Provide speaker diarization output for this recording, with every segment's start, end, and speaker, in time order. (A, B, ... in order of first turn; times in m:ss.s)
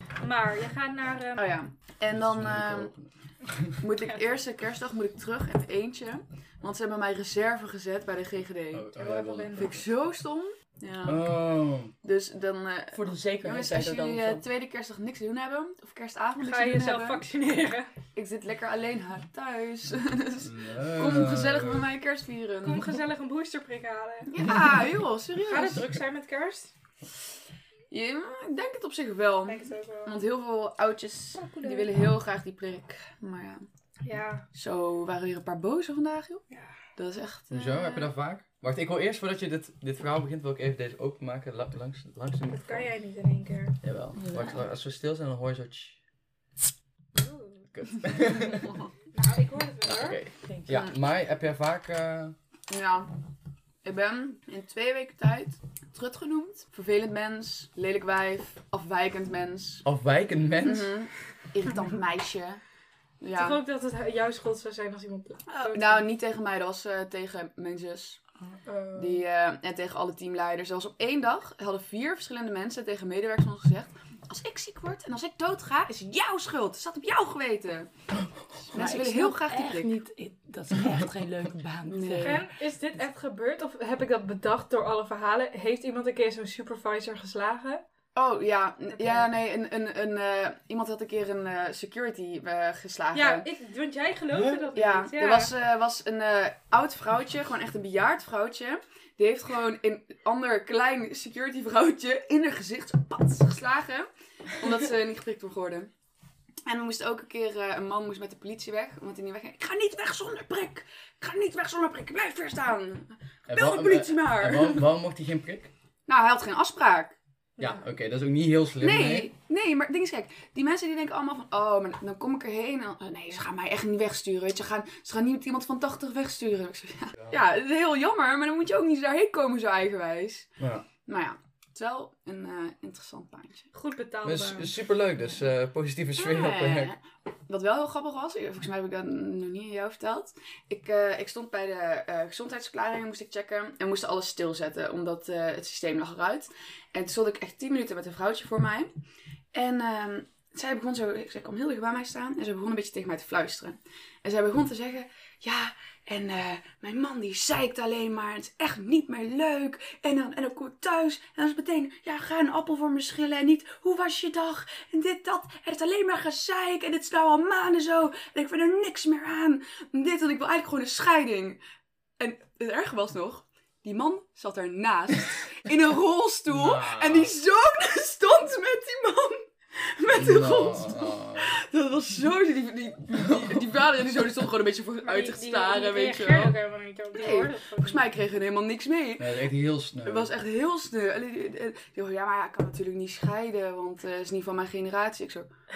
0:00.2-0:01.5 A
0:01.4-0:02.9 B
0:02.1-0:03.8 C
0:03.8-0:08.9 B
0:08.7-0:09.8 C
0:09.0-0:09.8 A
0:09.6-0:11.3 B
0:11.0-0:11.9 C
0:12.0-0:17.2 B
0:12.9-0:14.4 D
0:16.4-0:17.9 A
0:18.2-0:22.9 B
0:20.4-0:21.9 C
0:22.6-0:24.3 A
0:24.3-0:25.9 B
0:25.5-0:26.7 A
0:27.9-0:33.7 B
0:29.4-0:30.2 A
0:31.4-0:31.9 A
0:34.0-0:34.4 A
0:34.5-0:36.4 B
0:37.0-0:37.9 B
0:37.5-0:42.9 C
0:37.6-0:38.0 A
0:42.5-0:43.8 A
0:43.8-0:46.0 C
0:44.2-0:44.6 D
0:47.2-0:47.6 A
0:47.7-0:48.8 C
0:49.1-0:50.2 A
0:49.8-0:52.4 C
0:50.5-0:50.8 D
0:52.7-0:53.1 B
0:53.8-0:59.8 B
0:59.8-1:00.9 C
1:00.6-1:02.6 B
1:03.2-1:03.6 B
1:03.4-1:06.1 A
1:05.5-1:08.2 B
1:08.6-1:09.3 A
1:09.0-1:17.9 B
1:18.7-1:19.9 B
1:18.7-1:22.4 D
1:21.9-1:22.4 B
1:22.2-1:27.8 A
1:28.2-1:33.5 B
1:29.0-1:29.2 A
1:33.1-1:35.5 A
1:34.7-1:45.9 B
1:46.7-1:54.9 B
1:53.5-1:55.7 C
1:56.1-1:57.2 B
1:57.6-1:59.3 C
1:58.8-2:13.7 B
2:10.6-2:10.9 C
2:13.7-2:14.7 A
2:14.2-2:16.9 C
2:16.2-2:28.9 B
2:29.5-2:51.6 B
2:52.2-3:06.5 B
2:56.5-2:57.3 C
3:00.2-3:01.6 C
3:03.2-3:03.6 C
3:05.0-3:08.0 A
3:07.1-3:09.4 B
3:09.2-3:10.3 C
3:10.0-3:15.5 B